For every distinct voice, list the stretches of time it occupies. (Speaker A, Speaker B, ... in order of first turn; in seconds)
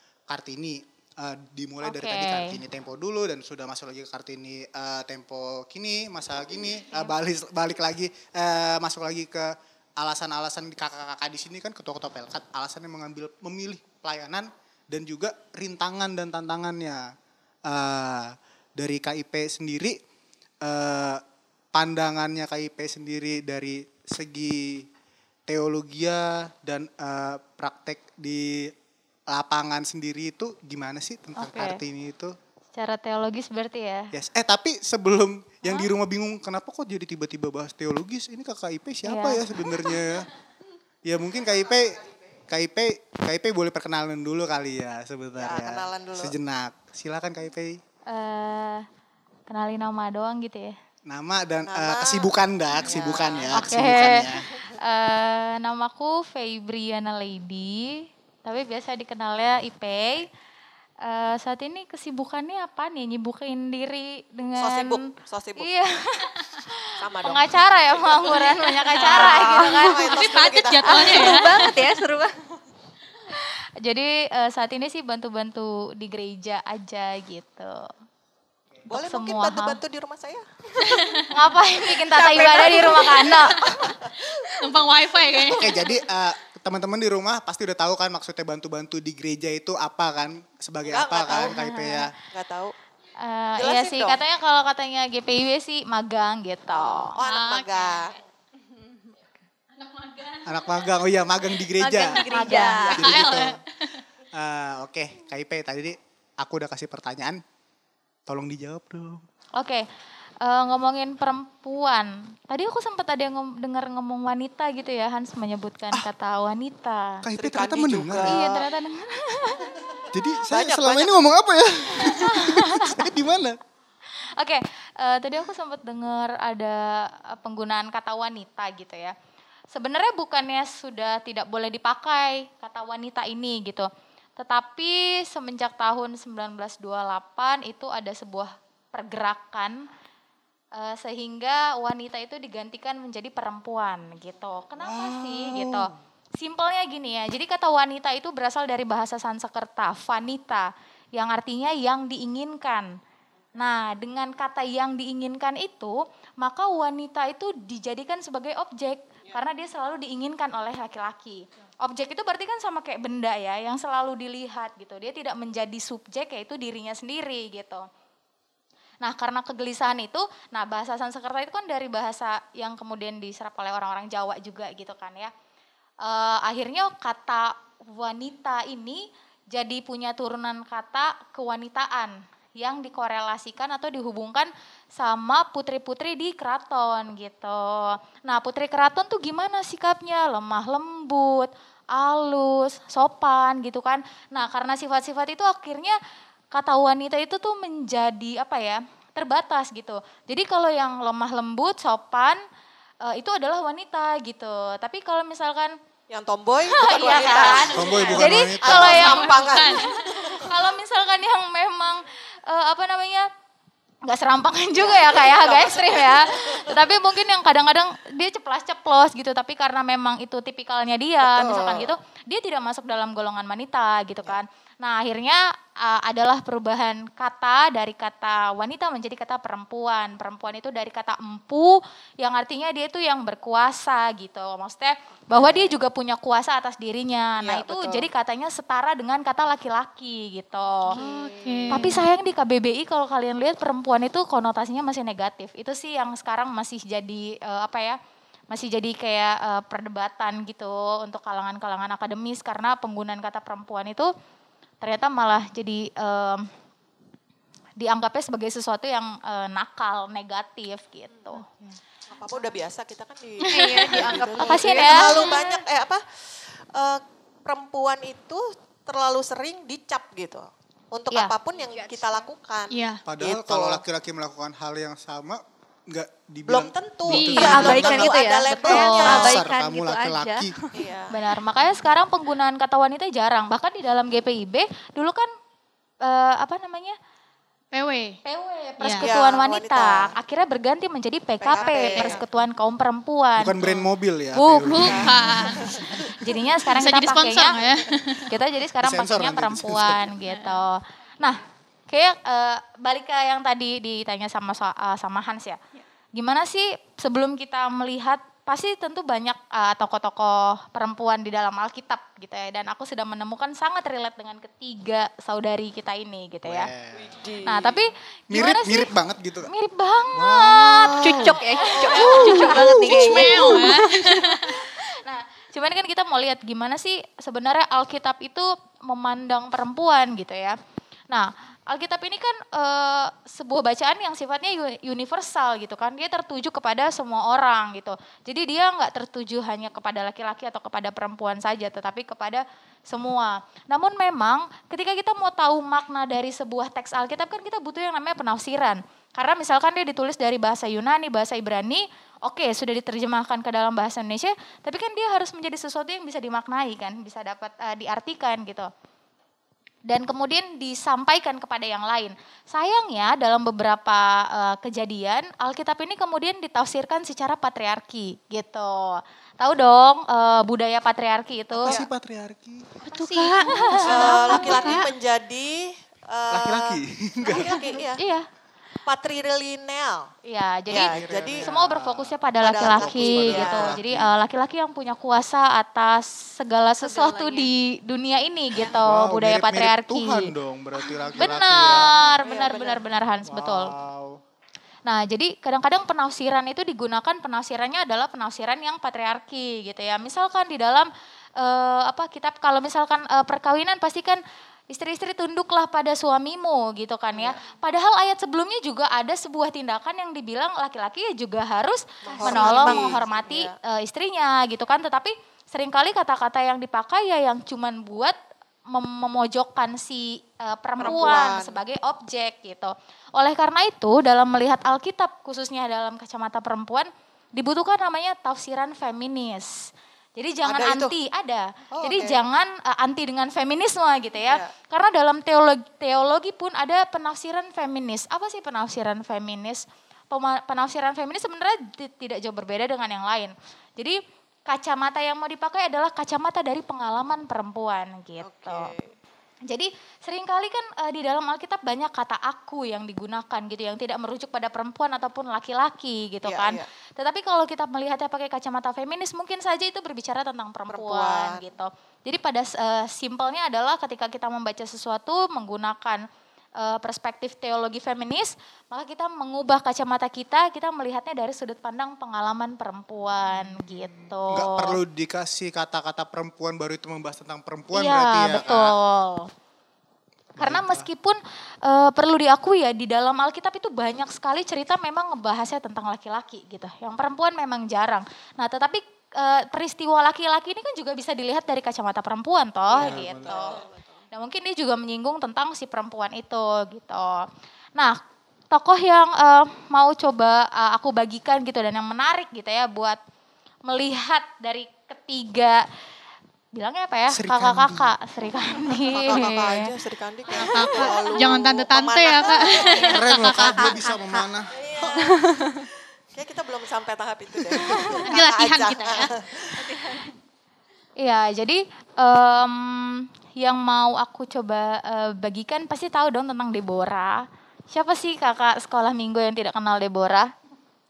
Speaker A: 0.3-17.1, 17.7-20.0, 20.6-21.2, 21.7-24.9, 25.5-28.7, 29.3-32.4, 34.1-40.3, 41.0-47.8, 51.1-54.5, 85.5-92.1, 100.5-103.6, 104.3-107.4, 108.3-109.2, 117.2-118.5, 120.1-123.6, 144.8-145.9, 207.7-209.3, 273.1-280.6, 293.4-295.2, 298.8-300.1, 316.4-317.1, 318.3-319.5, 320.2-321.4, 321.9-323.7, 371.5-372.7, 376.3-377.6, 380.7-384.1, 388.8-391.9, 393.3-394.2, 473.4-478.7, 480.4-480.9, 492.8-493.4, 507.1-507.9, 512.9-515.0, 517.6-517.8
Speaker B: 1.8-2.6, 31.4-31.8, 32.8-34.1, 39.0-40.0, 48.1-48.9, 49.5-50.7, 53.5-60.3, 61.0-70.4, 73.3-77.9, 78.9-79.8, 81.3-83.8, 91.5-92.1, 93.2-97.2, 102.3-103.2, 109.6-109.9, 110.4-117.3, 118.2-119.8, 122.0-123.1, 124.4-129.2, 129.7-139.8, 140.8-152.9, 153.6-167.9, 169.0-175.3, 176.0-196.0, 196.5-202.4, 203.0-205.8, 206.7-213.3, 214.0-241.0, 241.7-248.0, 248.5-254.1, 254.8-256.5, 257.8-261.5, 264.4-265.4, 281.1-285.3, 286.0-287.0, 288.2-293.7, 294.4-295.4, 296.0-297.6, 298.2-305.6, 306.1-316.7, 317.4-318.9, 319.5-330.6, 331.1-358.7, 359.9-371.8, 373.4-374.8, 378.0-378.3, 380.2-390.3, 391.1-393.7, 394.9-418.2, 418.7-444.0, 444.5-448.7, 449.5-466.0, 466.6-474.8, 477.7-479.3, 480.4-497.3, 498.5-503.0, 503.7-505.6, 506.5-509.7, 521.0-530.3
Speaker C: 45.4-46.3, 51.7-52.3, 52.8-53.5, 64.6-65.9, 67.0-71.4, 78.9-81.2, 82.1-84.2, 90.8-91.7, 92.2-92.7, 93.6-94.2, 96.7-98.2, 117.3-118.6, 120.5-121.1, 206.1-210.1, 214.8-216.8, 221.2-221.9, 235.3-235.7, 237.4-238.1, 262.1-273.8, 276.5-279.4, 280.7-281.1, 289.0-290.1, 291.4-292.2, 294.8-295.9, 316.9-317.8, 321.8-322.2, 373.8-378.0, 378.9-380.1, 380.7-381.5, 382.4-383.8, 392.2-392.9, 407.1-407.4, 412.1-413.5, 420.8-421.6, 430.4-430.9, 431.8-432.2, 434.2-434.5, 448.2-449.0, 456.2-456.7, 460.7-461.4, 492.7-493.7, 508.9-512.9, 514.5-515.2, 516.1-519.5
Speaker D: 68.2-69.9, 70.9-72.3, 101.8-103.2, 206.9-208.3, 240.9-241.9, 263.5-265.4, 271.5-272.3, 277.2-280.5, 321.0-324.2, 373.1-374.2, 386.7-387.5, 412.1-413.0, 493.6-493.9, 512.5-514.3, 514.9-515.7, 519.5-520.1
Speaker E: 69.0-69.3, 70.0-71.9, 80.8-81.2, 83.6-86.0, 97.2-98.2, 99.8-100.5, 102.4-104.0, 208.8-210.3, 240.9-242.0, 261.4-261.8, 263.5-264.4, 265.1-265.5, 272.7-273.0, 277.1-277.9, 278.7-279.2, 287.7-288.2, 288.8-289.1, 294.6-296.1, 296.7-298.3, 300.2-300.6, 322.8-324.7, 372.8-374.9, 510.3-513.7, 518.1-519.1